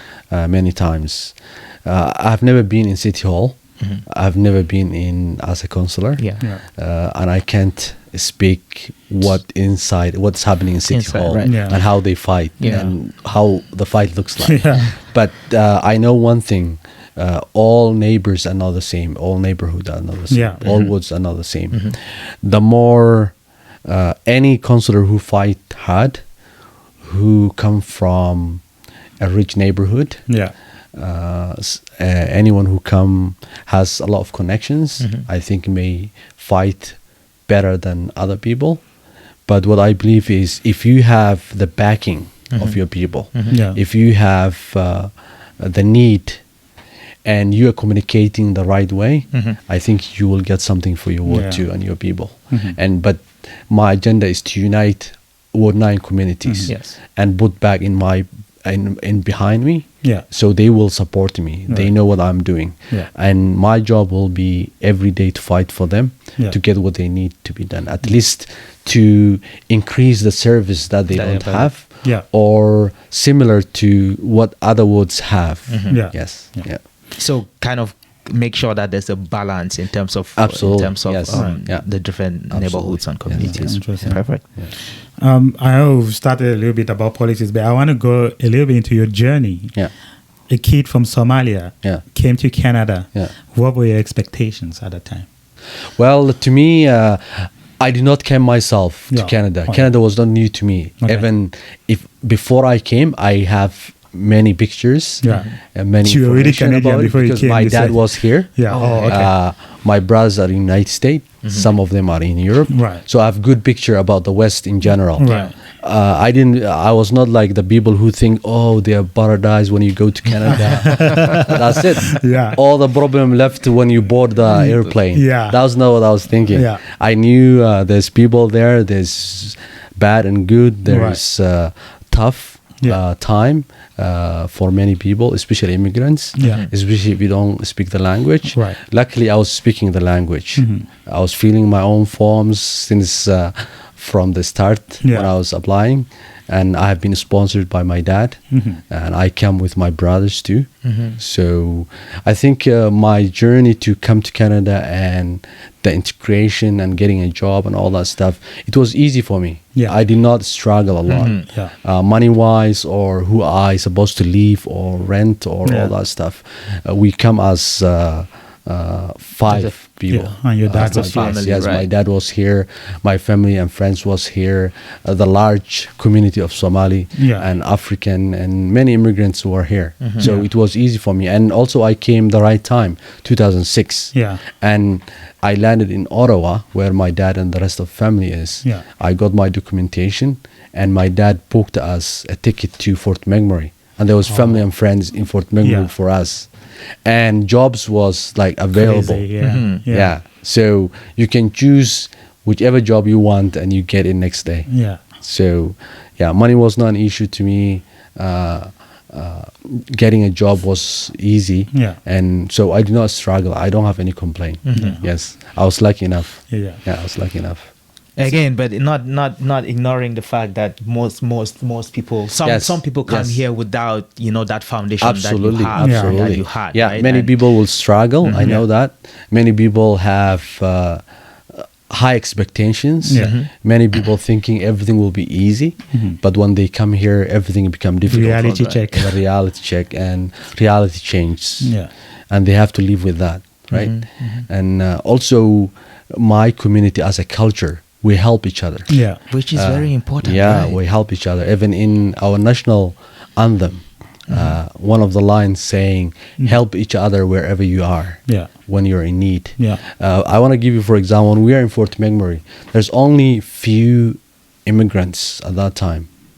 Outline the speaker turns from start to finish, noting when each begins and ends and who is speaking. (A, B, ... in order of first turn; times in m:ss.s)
0:00.3-0:23.3 A
0:06.2-0:06.5 B
0:10.9-0:11.8 B
0:11.4-0:11.8 C
0:12.6-0:12.9 B
0:14.4-0:14.9 C
0:20.3-0:20.6 C
0:20.6-0:21.0 B
0:21.7-0:22.0 B
0:23.9-0:26.2 A
0:27.0-0:28.6 A
0:29.2-0:30.3 A
0:30.3-0:30.5 C
0:31.0-0:38.8 A
0:35.0-0:35.3 B
0:39.5-0:46.4 A
0:42.5-0:42.8 B
0:43.5-0:43.8 C
0:47.2-1:16.8 A
0:49.3-0:49.6 B
0:51.3-0:51.7 C
0:52.5-0:52.8 C
0:56.7-0:57.0 B
1:01.7-1:02.0 C
1:11.1-1:11.7 B
1:15.7-1:16.0 B
1:15.9-1:16.7 C
1:17.2-1:24.4 B
1:20.4-1:21.9 A
1:22.5-1:24.7 A
1:23.3-1:24.3 C
1:25.2-1:29.8 C
1:30.5-1:35.3 C
1:36.0-3:16.5 A
1:39.1-1:39.9 C
1:41.0-1:41.3 C
1:45.2-1:45.5 C
1:45.3-1:45.6 B
1:46.0-1:49.3 C
1:48.7-1:49.3 B
1:51.4-1:51.7 B
1:52.7-1:53.0 C
1:55.1-1:55.6 C
1:55.2-1:55.5 B
2:00.6-2:02.6 C
2:04.5-2:05.6 C
2:06.5-2:06.8 C
2:10.9-2:11.2 C
2:16.4-2:16.6 C
2:16.4-2:16.7 B
2:18.5-2:18.8 C
2:20.6-2:20.9 C
2:25.0-2:25.3 C
2:28.5-2:28.8 C
2:30.8-2:31.2 B
2:41.1-2:41.5 B
2:41.4-2:41.7 C
2:45.6-2:45.9 C
2:49.5-2:49.8 B
2:50.1-2:51.4 C
2:50.8-2:51.9 B
2:57.2-2:57.5 C
3:00.0-3:00.3 B
3:00.2-3:00.5 C
3:04.1-3:04.4 C
3:14.3-3:14.6 C
3:15.6-3:15.9 C
3:17.0-3:19.3 A
3:18.7-3:20.1 C
3:19.4-3:19.8 B
3:19.9-3:24.7 A
3:24.7-3:25.0 C
3:25.2-3:37.7 A
3:31.7-3:32.0 C
3:34.6-3:35.0 B
3:34.7-3:35.1 C
3:36.5-3:36.8 C
3:38.2-3:47.4 B
3:42.4-3:43.4 A
3:45.0-3:51.0 A
3:45.8-3:46.2 C
3:48.2-3:48.6 B
3:48.3-3:48.6 C
3:51.6-4:01.8 A
3:53.0-3:53.4 C
3:53.2-3:53.5 B
3:55.9-3:56.2 C
3:58.1-3:59.2 C
4:01.6-4:01.9 C
4:02.3-4:09.0 A
4:03.7-4:04.5 B
4:08.9-4:09.2 C
4:09.3-4:10.8 B
4:09.5-4:26.1 A
4:14.3-4:14.6 B